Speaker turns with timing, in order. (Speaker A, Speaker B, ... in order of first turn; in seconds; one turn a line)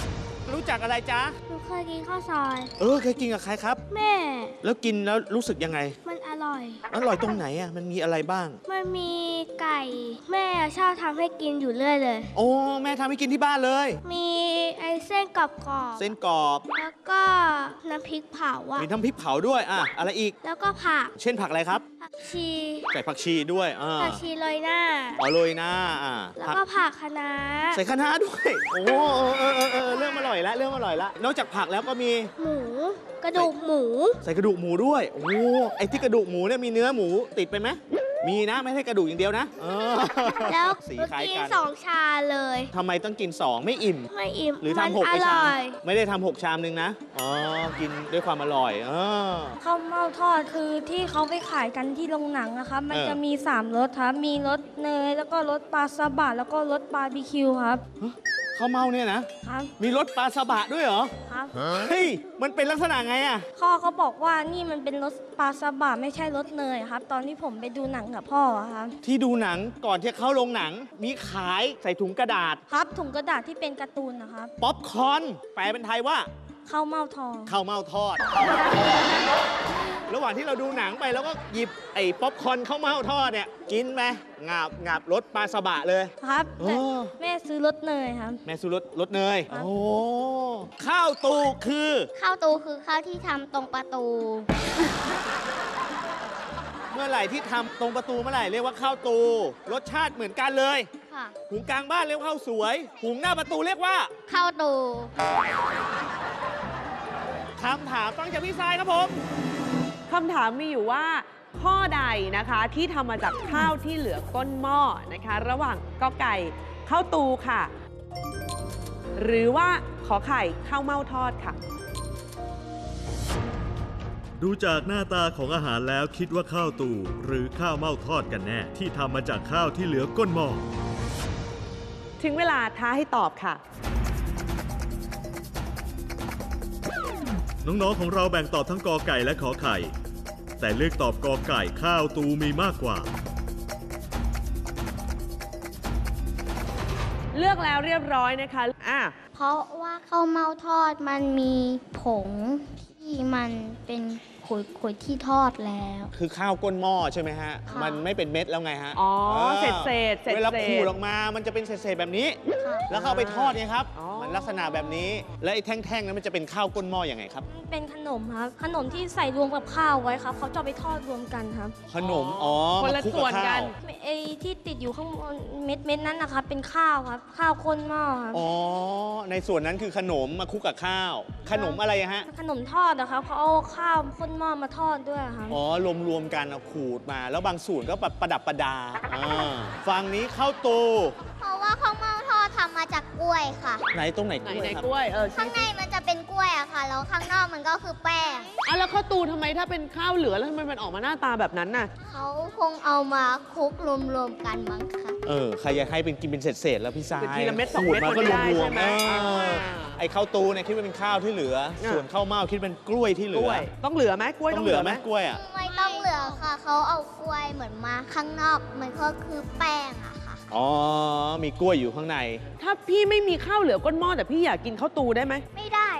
Speaker A: 0.5-1.3
Speaker B: 1.5-2.7
Speaker A: 2.8-3.8
Speaker B: 3.9-4.5
Speaker A: 4.6-6.0
Speaker B: 6.0-6.8
Speaker A: 6.9-8.6
Speaker B: 8.7-12.3
Speaker A: 12.3-14.0
Speaker B: 14.0-16.1
Speaker A: 16.0-16.6
Speaker B: 16.7-18.9
Speaker A: 18.8-20.3
Speaker B: 20.4-21.1
Speaker A: 21.2-21.8
Speaker B: 22.0-22.9
Speaker A: 22.9-24.2
Speaker B: 24.0-25.2
Speaker A: 25.2-26.6
Speaker B: 26.4-27.8
Speaker A: 27.7-32.3
Speaker B: 32.4-34.2
Speaker A: 34.2-41.6
Speaker B: 40.3-42.7
Speaker A: 42.7-44.1
Speaker B: 44.1-45.8
Speaker A: 44.6-49.6
Speaker C: 49.6-57.8
Speaker A: 52.9-53.2
Speaker A: 58.0-61.1
Speaker C: 59.4-59.7
Speaker C: 61.2-61.6
Speaker A: 61.7-63.4
Speaker C: 63.5-69.0
Speaker A: 69.0-72.6
Speaker C: 72.7-74.5
Speaker A: 74.6-76.3
Speaker C: 76.7-77.5
Speaker A: 77.5-78.4
Speaker A: 80.1-87.1
Speaker C: 86.2-88.4
Speaker A: 88.5-92.1
Speaker D: 92.2-94.5
Speaker A: 96.9-100.9
Speaker A: 101.5-104.1
Speaker D: 104.3-105.1
Speaker A: 107.6-109.2
Speaker E: 110.1-117.7
Speaker E: 119.2-121.6
Speaker F: 124.4-130.6
Speaker E: 132.2-133.6
Speaker F: 137.6-139.9
Speaker F: 140.6-143.1
Speaker E: 147.3-149.1
Speaker D: 149.3-156.1
Speaker A: 156.1-167.4
Speaker E: 158.9-160.9
Speaker E: 162.9-164.7
Speaker C: 167.5-171.8
Speaker A: 171.9-173.7
Speaker E: 171.9-173.7
Speaker C: 173.8-178.4
Speaker A: 178.3-182.2
Speaker C: 181.5-185.6
Speaker A: 185.5-191.2
Speaker D: 191.4-193.8
Speaker A: 193.9-194.8
Speaker E: 194.4-195.7
Speaker D: 195.3-198.5
Speaker E: 198.6-201.9
Speaker D: 202.1-205.2
Speaker A: 205.2-213.7
Speaker E: 207.2-210.0
Speaker E: 211.8-212.1
Speaker E: 213.3-215.0
Speaker A: 214.5-215.4
Speaker D: 215.3-220.4
Speaker B: 215.7-216.4
Speaker A: 220.5-222.4
Speaker E: 222.6-225.4